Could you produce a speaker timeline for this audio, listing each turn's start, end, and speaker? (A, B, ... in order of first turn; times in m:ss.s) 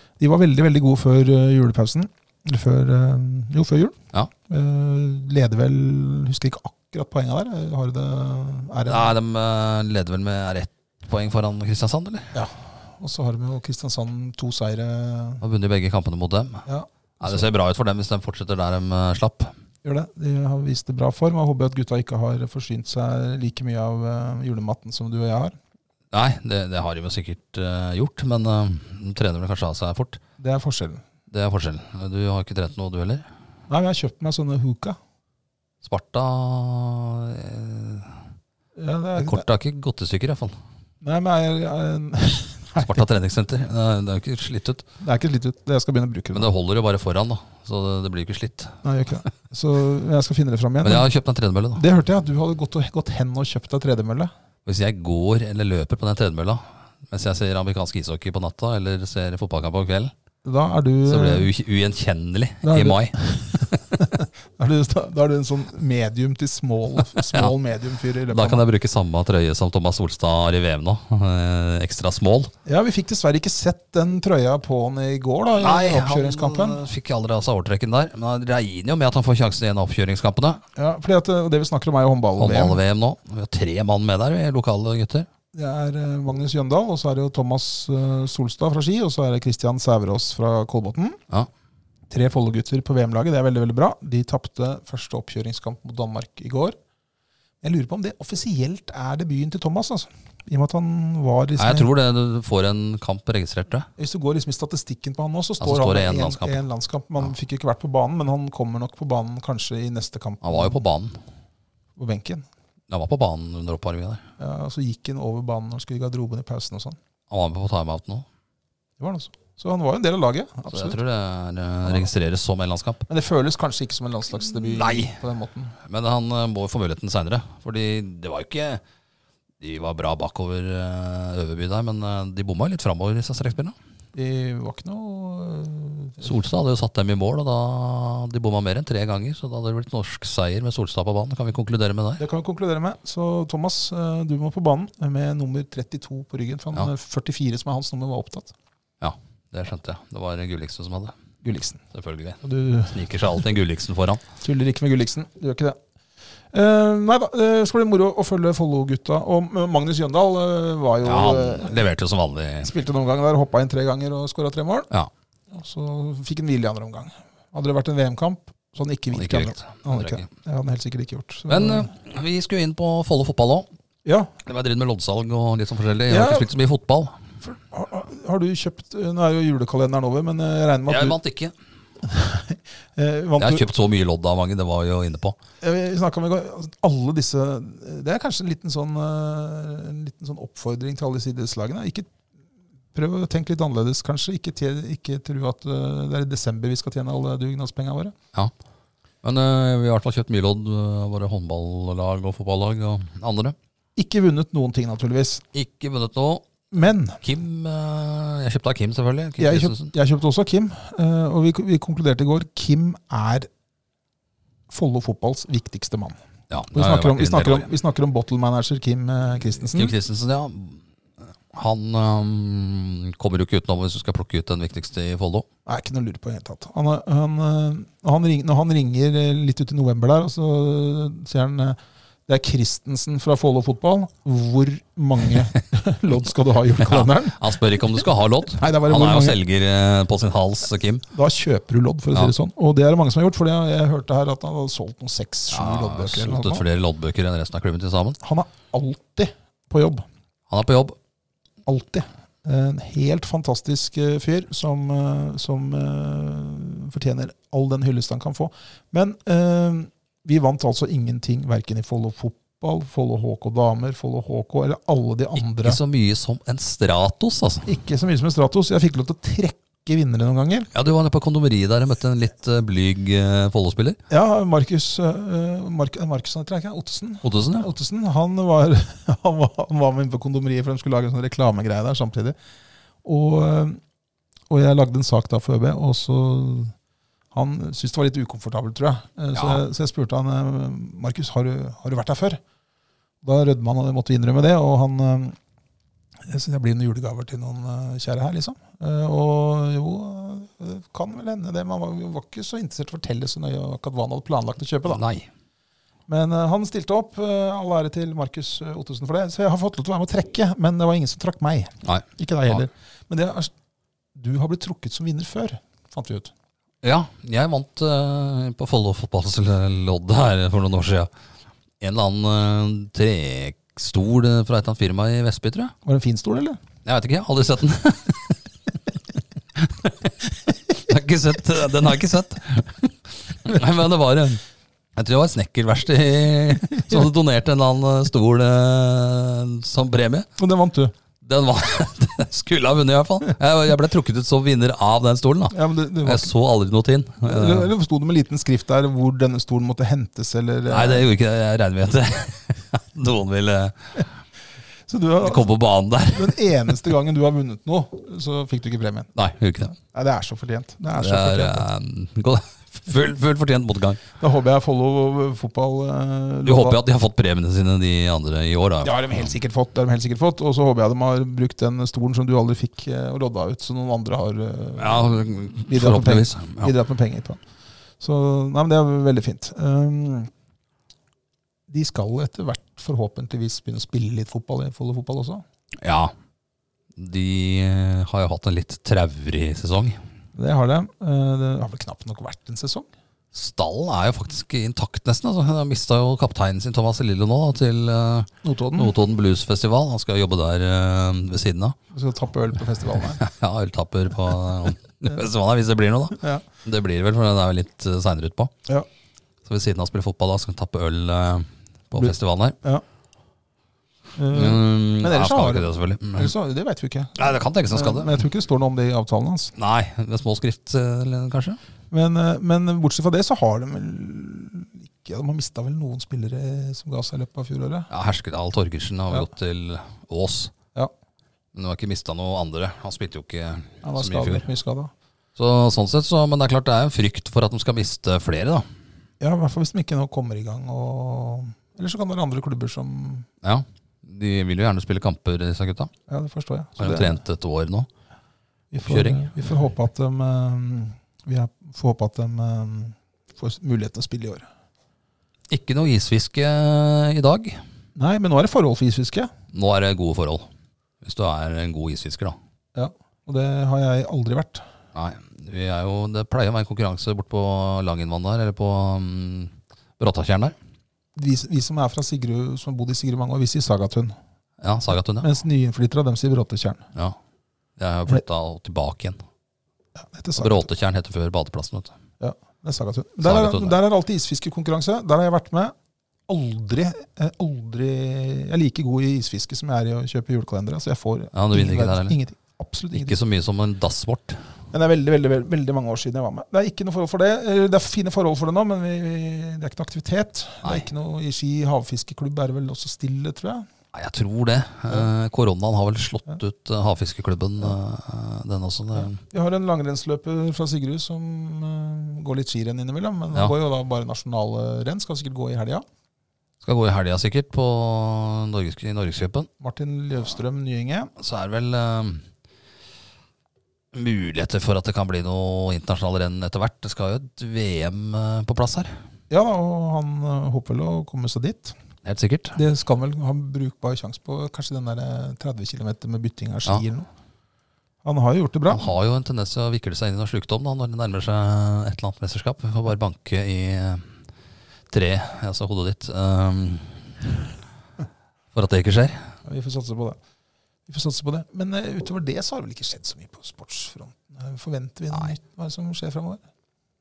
0:00.2-0:04.0 A
0:04.5-0:09.1 A
0:08.9-0:12.4 B
0:12.3-0:15.4 A
0:15.4-0:16.7 B
0:16.7-0:17.4 A
0:17.2-0:19.5 B
0:19.8-0:25.6 A
0:26.1-0:30.2 B
0:30.4-0:31.0 A
0:31.3-0:33.3 B
0:33.7-0:35.0 A
0:35.8-0:38.2 B
0:38.8-0:39.4 A
0:39.2-0:40.6 B
0:41.0-0:43.0 A
0:42.8-0:44.8 B
0:45.0-0:46.5 A
0:46.3-0:48.8 B
0:48.8-0:51.1 A
0:50.8-0:51.8 B
0:51.8-0:54.3 A
0:54.6-1:00.1 B
1:00.4-1:01.5 A
1:01.1-1:03.8 B
1:02.6-1:08.6 A
1:08.3-1:12.5 B
1:12.7-1:16.8 A
1:15.6-1:20.6 B
1:20.8-1:22.8 A
1:22.4-1:25.3 B
1:25.5-1:31.2 A
1:32.1-1:36.8 A
1:37.6-1:41.9 A
1:41.6-1:43.9 B
1:44.0-1:50.8 A
1:45.6-1:46.6 B
1:50.4-1:51.2 B
1:52.0-1:52.5 A
1:52.9-1:54.2 B
1:54.4-1:57.0 A
1:57.3-1:58.3 B
1:59.0-2:01.0 A
2:00.7-2:03.0 B
2:03.1-2:05.8 A
2:04.7-2:05.2 B
2:05.8-2:08.8 B
2:09.6-2:13.8 B
2:14.1-2:16.3 A
2:16.2-2:22.2 B
2:22.2-2:28.5 A
2:29.0-2:31.1 B
2:31.4-2:31.8 A
2:31.9-2:34.2 B
2:32.4-2:33.0 A
2:34.4-2:35.8 A
2:36.5-2:41.8 A
2:41.0-2:42.7 B
2:42.6-2:44.9 A
2:45.5-2:51.9 A
2:49.1-2:50.3 B
2:51.5-2:53.7 B
2:54.0-2:54.3 A
2:54.4-2:57.2 B
2:56.1-2:56.5 A
2:57.4-3:01.2 A
3:00.9-3:01.5 B
3:02.0-3:03.7 A
3:03.4-3:05.4 B
3:05.6-3:12.1 A
3:12.9-3:18.1 A
3:19.2-3:23.6 B
3:24.0-3:25.4 A
3:25.5-3:29.9 B
3:26.7-3:27.2 A
3:29.4-3:33.5 A
3:34.7-3:36.2 A
3:36.5-3:37.7 B
3:36.7-3:39.9 A
3:39.7-3:40.9 B
3:41.5-3:45.5 B
3:45.7-3:57.5 A
3:56.8-4:01.0 B
3:58.5-3:59.4 A
4:01.1-4:06.6 A
4:05.5-4:08.2 B
4:08.2-4:10.0 A
4:10.5-4:11.0 B
4:11.7-4:25.8 A
4:25.4-4:27.7 B
4:27.7-4:30.7 A
4:30.7-4:34.0 B
4:34.1-4:42.4 A
4:37.2-4:37.7 B
4:43.0-4:43.8 A
4:44.5-4:46.7 A
4:47.3-4:52.4 A
4:49.3-4:49.6 B
4:53.2-4:55.4 A
4:56.2-5:05.0 A
5:04.9-5:05.3 B
5:06.1-5:13.5 A
5:11.8-5:12.6 B
5:14.2-5:16.3 A
5:16.8-5:21.1 B
5:21.8-5:25.7 B
5:25.8-5:26.6 A
5:26.8-5:28.4 B
5:29.6-5:30.1 B
5:30.8-5:34.4 B
5:35.0-5:40.3 B
5:36.8-5:37.1 A
5:40.4-5:40.9 A
5:41.2-5:47.7 B
5:45.5-5:46.3 A
5:47.2-5:51.1 A
5:50.7-5:54.1 B
5:54.9-5:55.5 A
5:55.2-5:56.4 B
5:56.1-5:59.1 A
5:59.2-5:59.8 B
5:59.8-6:01.7 A
6:01.0-6:04.0 B
6:04.2-6:06.8 A
6:06.4-6:09.3 B
6:08.8-6:17.4 A
6:14.8-6:16.7 B
6:18.0-6:20.3 A
6:21.7-6:25.4 A
6:25.8-6:26.1 B
6:27.0-6:30.0 B
6:30.4-6:32.9 A
6:33.3-6:41.8 B
6:38.4-6:39.0 A
6:41.9-6:43.2 A
6:43.2-6:48.5 B
6:46.2-6:46.4 A
6:49.4-6:52.6 B
6:51.9-6:52.8 A
6:54.2-6:59.5 A
6:54.3-6:56.3 B
6:57.2-6:58.2 B
6:59.6-7:01.6 B
7:01.9-7:07.9 A
7:07.9-7:10.5 B
7:11.5-7:14.4 B
7:13.8-7:14.9 A
7:15.4-7:18.7 B
7:19.2-7:23.3 A
7:23.4-7:25.9 B
7:26.1-7:27.2 A
7:26.8-7:27.9 B
7:28.7-7:34.5 A
7:28.9-7:29.3 B
7:35.5-7:37.6 B
7:38.0-7:39.3 A
7:39.5-7:40.5 B
7:41.0-7:42.4 B
7:42.8-7:44.6 A
7:44.9-7:50.6 B
7:51.2-7:54.2 A
7:54.6-7:55.3 B
7:55.2-7:56.8 A
7:57.8-7:59.2 B
8:00.0-8:00.7 A
8:00.4-8:01.9 B
8:02.2-8:05.7 A
8:03.2-8:03.8 B
8:06.3-8:13.2 A
8:11.3-8:12.2 B
8:12.9-8:14.4 B
8:14.7-8:23.7 A
8:23.9-8:29.2 B
8:29.0-8:35.8 A
8:36.6-8:39.5 B
8:39.6-8:41.1 A
8:41.2-8:42.2 B
8:43.9-8:49.0 B
8:49.3-8:51.8 A
8:52.0-8:52.6 B
8:52.6-8:57.1 A
8:58.0-8:58.9 A
8:58.7-9:04.1 B
9:04.9-9:07.2 B
9:08.5-9:09.3 B
9:09.4-9:10.2 A
9:10.9-9:16.4 A